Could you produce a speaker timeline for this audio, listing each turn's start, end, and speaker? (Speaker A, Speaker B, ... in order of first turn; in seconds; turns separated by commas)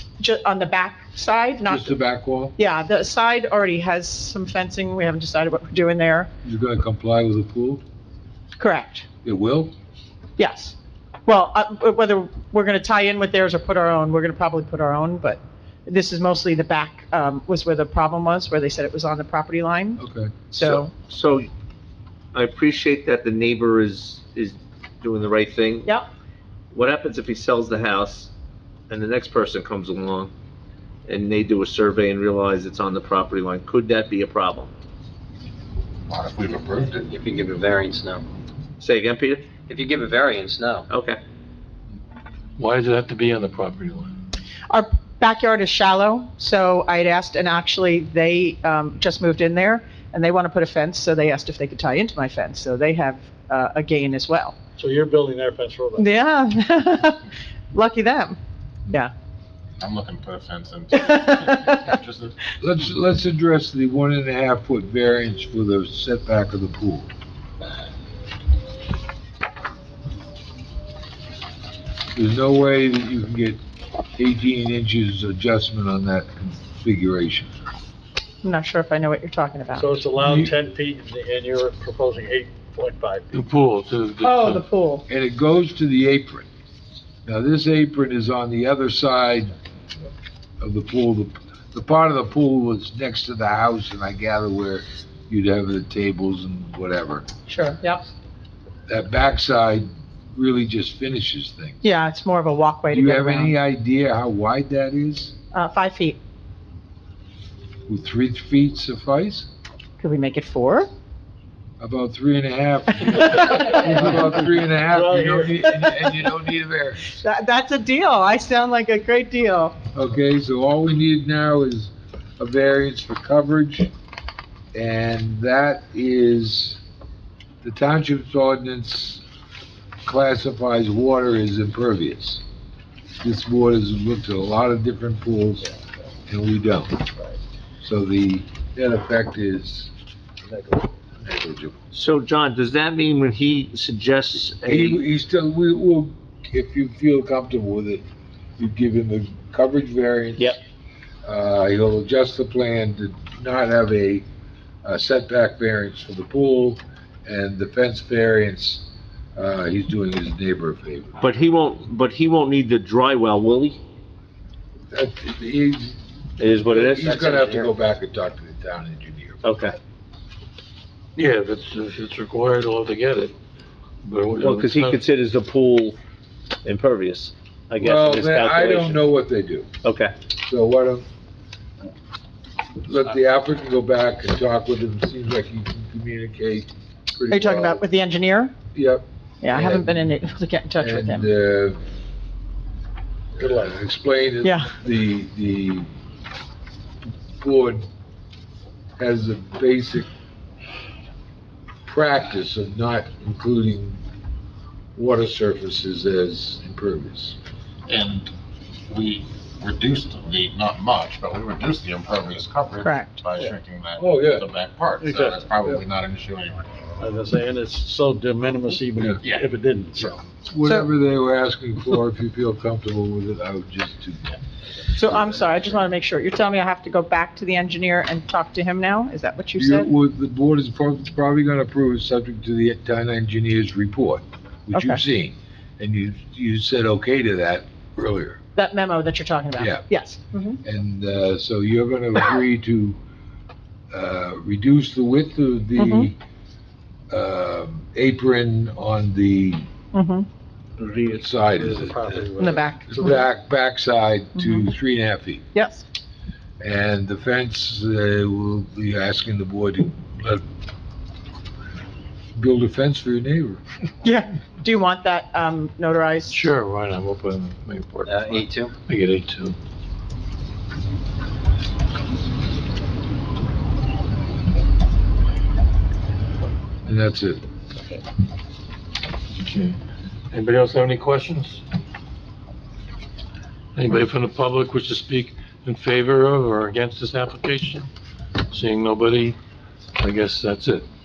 Speaker A: 0.2-2.0, Speaker B: 1.7-2.5, Speaker A: 2.5-6.3, Speaker B: 6.4-7.8, Speaker A: 8.6-9.1, Speaker B: 9.2-9.7, Speaker A: 10.4-10.7, Speaker A: 11.2-20.9, Speaker B: 20.0-20.3, Speaker C: 20.6-21.5, Speaker C: 22.3-25.9, Speaker C: 26.7-28.3, Speaker C: 28.9-30.3, Speaker C: 31.1-34.7, Speaker D: 36.1-37.5, Speaker E: 37.2-38.2, Speaker C: 38.8-39.5, Speaker E: 39.7-40.8, Speaker C: 40.9-41.2, Speaker F: 42.6-44.1, Speaker A: 44.7-54.5, Speaker G: 54.8-56.1, Speaker A: 56.0-58.4, Speaker D: 59.8-62.4, Speaker B: 62.6-67.1, Speaker B: 72.1-73.6, Speaker B: 74.2-77.5, Speaker A: 78.4-79.9, Speaker G: 79.8-83.4, Speaker B: 80.2-80.5, Speaker F: 83.3-84.6, Speaker A: 84.2-85.0, Speaker B: 85.1-86.5, Speaker B: 87.2-89.5, Speaker B: 90.6-97.2, Speaker A: 97.5-98.0, Speaker B: 98.9-101.8, Speaker A: 101.8-103.5, Speaker B: 102.9-105.3, Speaker A: 105.5-106.2, Speaker B: 107.9-109.5, Speaker A: 110.0-110.9, Speaker B: 111.8-117.1, Speaker A: 113.5-113.8, Speaker G: 114.9-115.5, Speaker A: 117.1-119.8, Speaker B: 119.9-123.9, Speaker B: 124.7-126.8, Speaker B: 127.6-129.2, Speaker B: 130.0-132.4, Speaker B: 133.2-135.7, Speaker B: 136.3-136.9, Speaker B: 137.8-139.9, Speaker B: 140.5-141.8, Speaker C: 141.9-145.0, Speaker B: 144.6-148.0, Speaker B: 148.6-150.6, Speaker B: 151.2-154.2, Speaker B: 154.8-161.2, Speaker C: 161.2-163.8, Speaker B: 164.9-169.5, Speaker C: 166.4-167.3, Speaker E: 167.4-167.7, Speaker C: 169.4-169.8, Speaker F: 171.2-173.3, Speaker F: 174.0-175.0, Speaker C: 174.4-176.0, Speaker C: 176.6-179.0, Speaker B: 177.8-179.7, Speaker C: 179.8-180.1, Speaker B: 180.4-181.1, Speaker B: 182.8-187.8, Speaker A: 187.3-188.5, Speaker B: 188.7-190.1, Speaker A: 189.4-191.3, Speaker B: 190.8-191.8, Speaker B: 193.4-195.9, Speaker A: 194.4-194.7, Speaker B: 197.4-197.8, Speaker B: 199.0-200.1, Speaker B: 201.8-204.0, Speaker B: 204.9-207.4, Speaker D: 207.9-208.3, Speaker D: 208.9-216.7, Speaker A: 212.8-213.1, Speaker B: 214.0-214.5, Speaker G: 215.0-215.8, Speaker G: 217.0-220.2, Speaker D: 219.2-219.5, Speaker B: 220.4-224.3, Speaker A: 224.9-229.9, Speaker B: 229.6-238.4, Speaker A: 234.7-235.0, Speaker A: 238.6-240.6, Speaker B: 239.6-239.8, Speaker B: 240.6-243.0, Speaker B: 243.9-246.2, Speaker A: 245.8-246.1, Speaker B: 247.1-249.6, Speaker A: 249.9-250.3, Speaker G: 250.8-253.2, Speaker B: 251.0-252.3, Speaker A: 252.4-253.1, Speaker B: 252.9-255.4, Speaker A: 254.3-254.7, Speaker A: 255.5-255.8, Speaker B: 256.6-260.4, Speaker B: 262.3-263.6, Speaker A: 264.0-266.4, Speaker F: 266.3-269.6, Speaker E: 268.0-268.7, Speaker B: 276.8-277.4, Speaker F: 279.4-279.8, Speaker F: 280.3-281.6, Speaker F: 283.8-287.9, Speaker F: 288.5-289.4, Speaker F: 290.0-290.9